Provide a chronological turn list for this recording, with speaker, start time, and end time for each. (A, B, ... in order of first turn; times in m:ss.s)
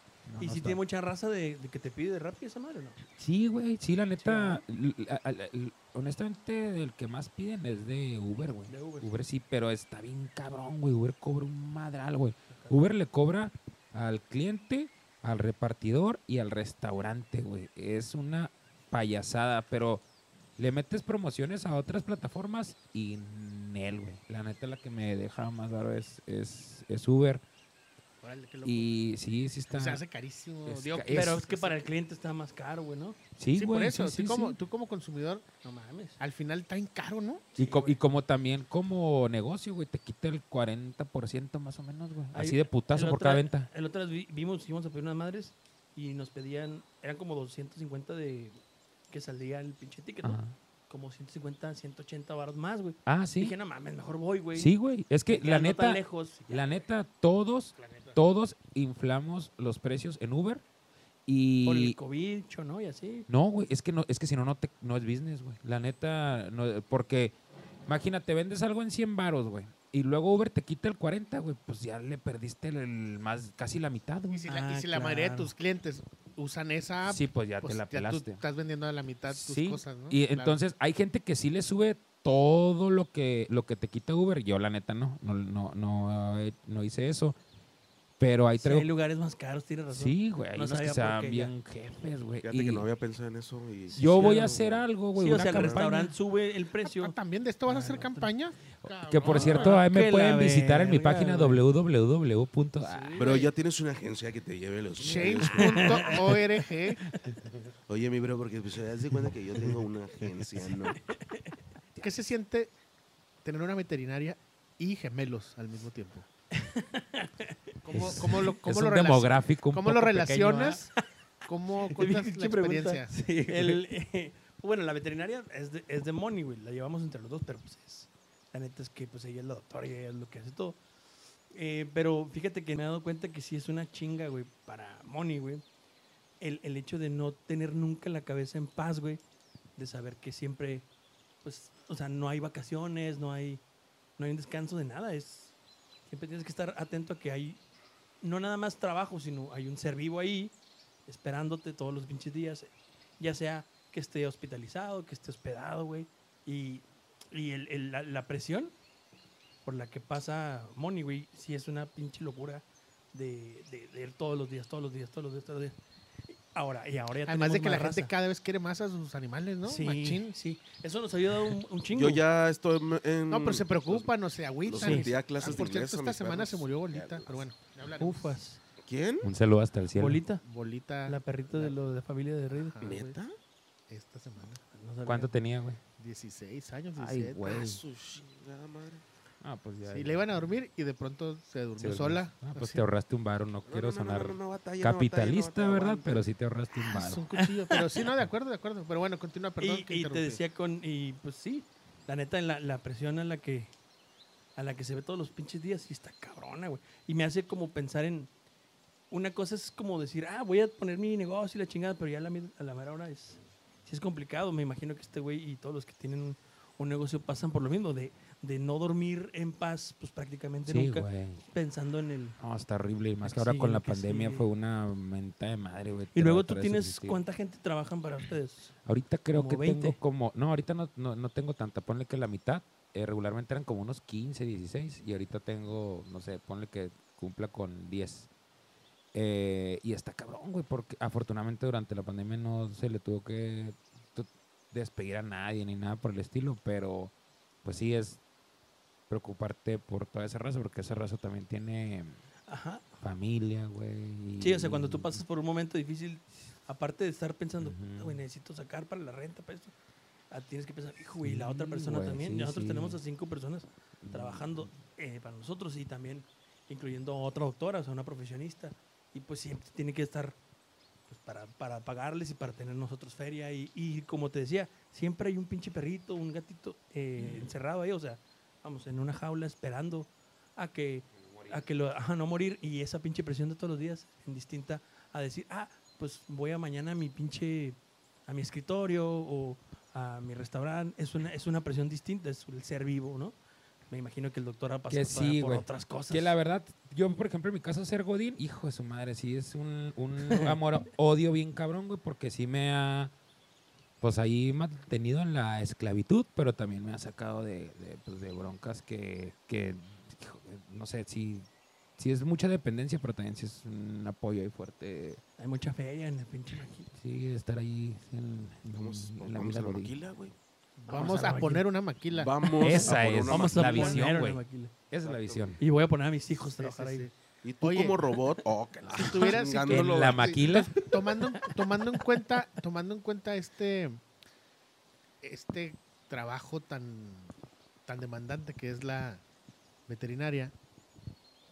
0:00.2-0:00.8 A
0:00.4-0:03.0 B
0:03.2-0:20.0 A
0:04.2-0:04.6 B
0:08.7-0:09.1 B
0:12.5-0:12.8 B
0:20.6-0:27.4 A
0:28.2-0:28.9 C
0:28.6-0:30.0 A
0:29.7-0:31.8 C
0:30.6-0:31.4 A
0:31.1-0:33.2 B
0:33.4-0:34.6 A
0:33.5-0:35.4 C
0:35.6-0:36.2 B
0:36.2-0:37.5 C
0:37.5-0:38.0 B
0:37.6-0:43.7 A
0:42.3-0:48.6 B
0:49.1-0:54.7 B
0:50.2-0:50.5 A
0:53.0-0:53.5 A
0:54.5-1:00.6 A
0:55.3-0:56.7 B
0:57.8-0:58.2 C
1:01.3-1:02.0 A
1:01.6-1:03.3 B
1:03.3-1:07.3 A
1:07.9-1:14.5 A
1:14.3-1:20.6 C
1:14.5-1:15.5 B
1:17.0-1:18.4 A
1:19.3-1:27.4 A
1:28.2-1:28.9 A
1:28.6-1:31.5 B
1:29.9-1:32.8 A
1:32.4-1:35.8 D
1:33.9-1:34.6 B
1:34.0-1:36.1 A
1:35.1-1:37.1 B
1:36.8-1:39.8 C
1:37.6-1:38.3 B
1:38.8-1:43.3 A
1:39.2-1:41.6 B
1:42.8-1:43.5 C
1:43.2-1:46.2 D
1:45.0-1:47.0 C
1:45.6-1:46.4 B
1:47.2-1:47.5 A
1:47.9-1:51.0 D
1:51.1-1:51.5 B
1:52.0-1:52.7 C
1:53.4-1:56.3 C
1:56.5-1:57.7 B
1:57.8-2:00.9 C
1:57.9-2:00.8 A
2:01.4-2:03.1 C
2:01.9-2:10.8 B
2:03.1-2:03.8 A
2:11.5-2:15.6 B
2:16.4-2:19.2 B
2:19.8-2:20.9 B
2:21.4-2:23.6 B
2:24.2-2:25.5 B
2:26.1-2:27.6 B
2:28.2-2:30.5 B
2:31.0-2:38.7 B
2:39.6-2:45.8 B
2:46.3-2:48.1 B
2:47.2-2:50.3 C
2:49.6-2:52.2 B
2:51.9-2:54.1 D
2:53.3-2:58.4 C
2:54.6-2:57.4 D
2:54.8-2:55.1 B
2:58.0-2:58.6 B
2:58.8-2:59.3 D
2:59.2-3:00.2 A
3:00.0-3:00.4 B
3:00.4-3:01.7 C
3:01.0-3:02.8 B
3:02.5-3:03.2 C
3:02.8-3:03.3 D
3:03.9-3:04.6 C
3:04.7-3:05.3 B
3:05.0-3:05.8 A
3:06.0-3:07.6 C
3:06.9-3:07.8 A
3:07.4-3:09.0 D
3:09.4-3:10.2 A
3:09.8-3:12.8 C
3:11.8-3:17.3 A
3:13.6-3:16.3 D
3:16.8-3:20.4 C
3:17.4-3:18.0 B
3:19.6-3:23.7 B
3:24.6-3:28.3 B
3:29.1-3:42.4 B
3:40.6-3:41.4 A
3:42.4-3:47.2 A
3:43.2-3:44.5 B
3:46.1-3:48.7 B
3:48.8-3:58.3 A
3:49.3-3:50.0 B
3:59.1-4:07.1 A
4:07.6-4:08.2 A
4:09.1-4:12.2 A
4:12.5-4:12.8 B
4:13.0-4:15.2 A
4:14.4-4:19.7 B
4:17.6-4:18.2 A
4:20.3-4:30.4 B
4:21.2-4:23.0 A
4:24.0-4:24.7 A
4:31.1-4:53.4 B
4:37.2-4:37.5 A
4:41.2-4:41.6 A
4:53.9-4:56.4 B
4:54.9-5:03.1 A
5:00.2-5:00.6 B
5:04.0-5:15.2 A
5:15.4-5:16.9 B
5:16.9-5:19.9 A
5:18.7-5:20.3 D
5:20.8-5:21.7 B
5:20.8-5:22.3 C
5:21.0-5:21.3 A
5:22.1-5:24.1 D
5:22.4-5:24.7 B
5:22.6-5:25.6 A
5:25.0-5:25.6 D
5:25.6-5:27.1 B
5:26.4-5:28.0 C
5:27.4-5:30.4 D
5:28.9-5:34.0 C
5:29.2-5:30.7 A
5:35.2-5:37.3 C
5:37.8-5:39.2 C
5:39.9-5:40.5 C